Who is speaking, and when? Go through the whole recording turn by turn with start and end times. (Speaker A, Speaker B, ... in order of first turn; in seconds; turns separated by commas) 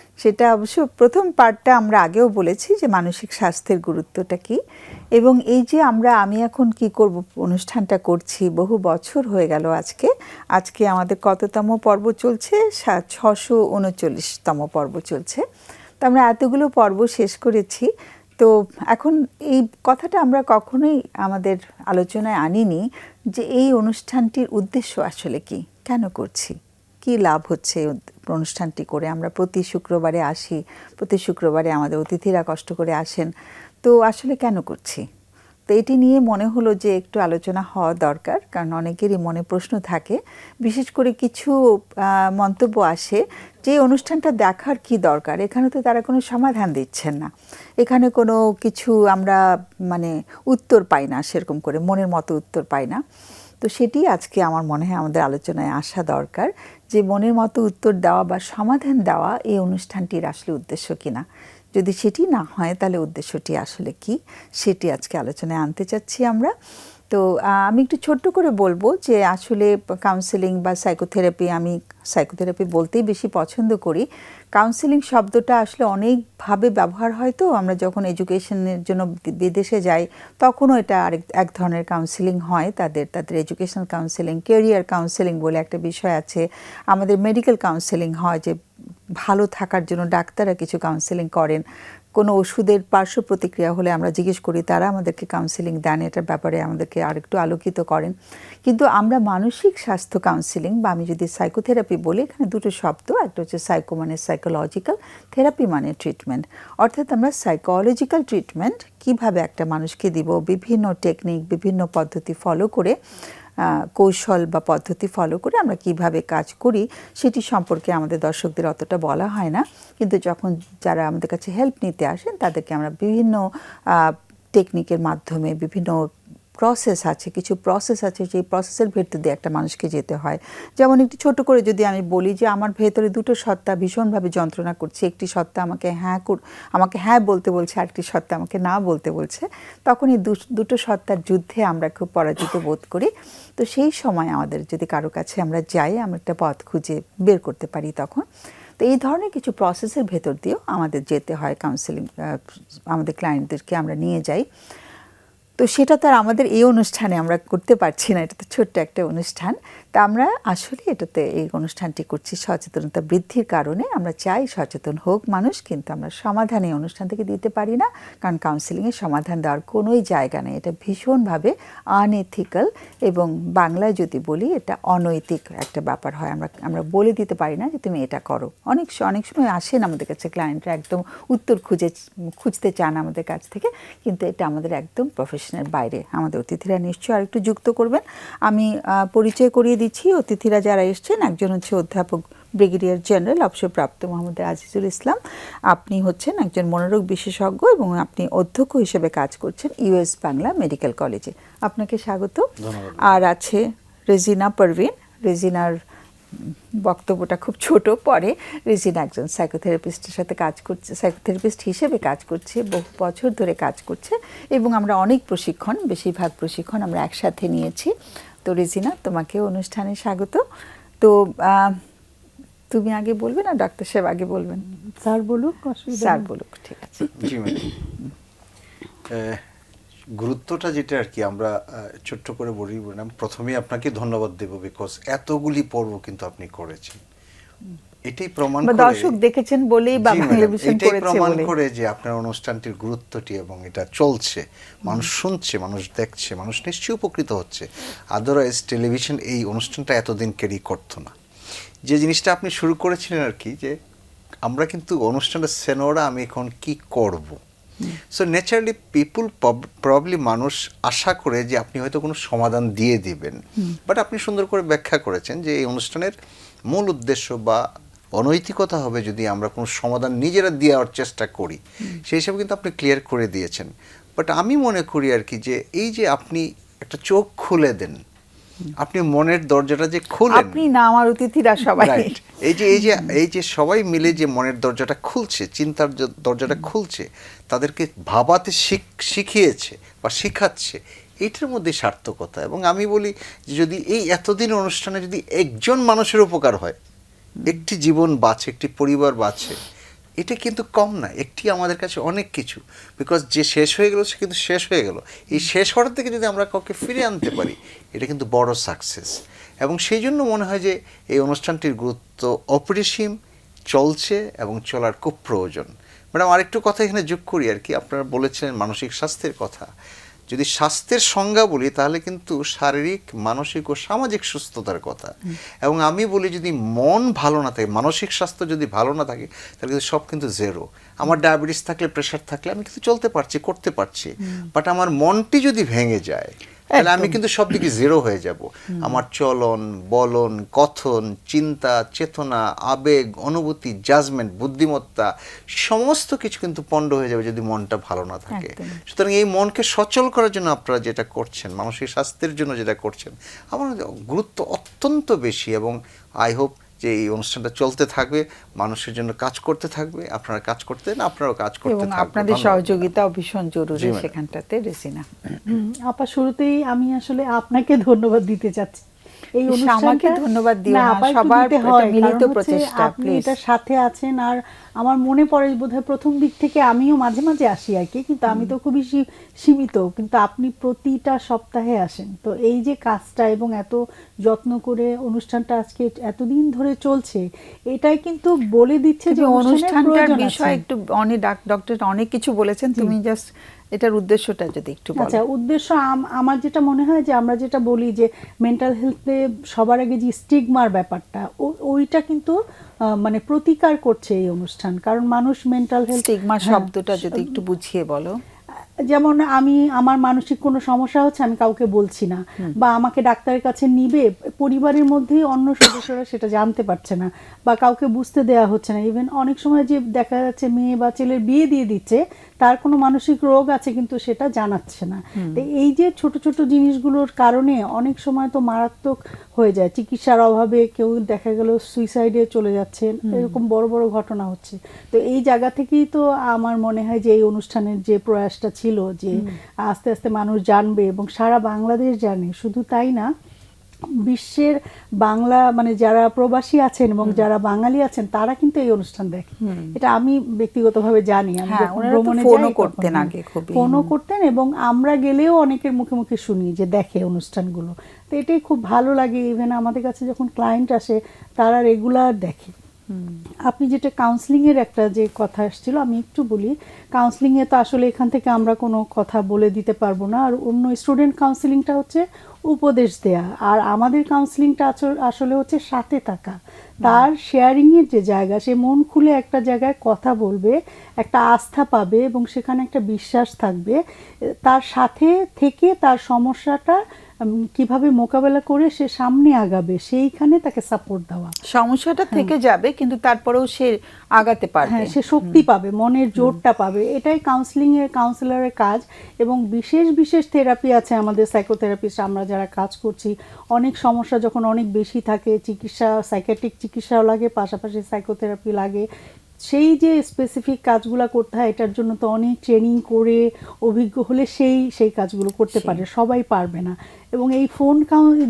Speaker A: 0.2-4.6, Speaker A: 5.2-15.4, Speaker A: 16.0-17.9, Speaker A: 18.4-22.8, Speaker A: 23.4-33.3, Speaker A: 33.8-35.0, Speaker A: 35.7-41.5, Speaker A: 42.4-47.3, Speaker A: 47.8-49.4, Speaker A: 49.9-53.0, Speaker A: 53.6-61.2, Speaker A: 61.8-66.5, Speaker A: 67.1-88.5, Speaker A: 89.2-91.6, Speaker A: 92.2-98.1, Speaker A: 98.7-113.0, Speaker A: 113.6-123.4, Speaker A: 124.0-126.1, Speaker A: 126.6-148.2, Speaker A: 148.8-154.4, Speaker A: 155.6-195.2, Speaker A: 195.7-202.5, Speaker B: 202.6-203.2, Speaker A: 203.0-205.8, Speaker A: 206.3-217.9, Speaker A: 218.4-220.4, Speaker A: 221.0-221.8, Speaker A: 222.7-224.6, Speaker C: 225.0-226.2, Speaker A: 225.9-227.2, Speaker B: 227.1-227.6, Speaker B: 229.1-229.4, Speaker B: 230.2-237.0, Speaker B: 238.1-239.1, Speaker A: 238.6-241.5, Speaker B: 240.0-251.1, Speaker B: 251.9-253.7, Speaker B: 254.4-257.4, Speaker B: 258.1-266.1, Speaker B: 266.7-267.6, Speaker B: 268.2-278.0, Speaker B: 278.8-280.6, Speaker A: 280.3-282.2, Speaker B: 281.8-296.8, Speaker B: 297.4-299.6, Speaker B: 300.2-313.1, Speaker B: 313.7-319.7, Speaker B: 320.3-345.1, Speaker A: 336.7-337.2, Speaker B: 345.6-362.9, Speaker A: 348.3-348.8, Speaker A: 361.7-365.4, Speaker B: 363.8-364.1, Speaker C: 365.5-368.8, Speaker C: 369.4-390.6, Speaker A: 369.5-373.3, Speaker A: 378.3-378.5, Speaker A: 389.1-395.2, Speaker C: 395.0-402.4, Speaker C: 403.0-407.3, Speaker A: 405.9-408.2, Speaker C: 408.9-443.1, Speaker A: 425.2-425.4, Speaker A: 433.0-433.4, Speaker C: 444.1-462.5, Speaker A: 449.4-449.8, Speaker A: 451.5-453.9, Speaker A: 462.9-463.2, Speaker C: 463.5-483.8, Speaker C: 484.4-486.8, Speaker C: 487.6-491.3, Speaker A: 491.5-495.4, Speaker C: 494.7-508.9, Speaker C: 509.5-518.1, Speaker A: 515.5-515.8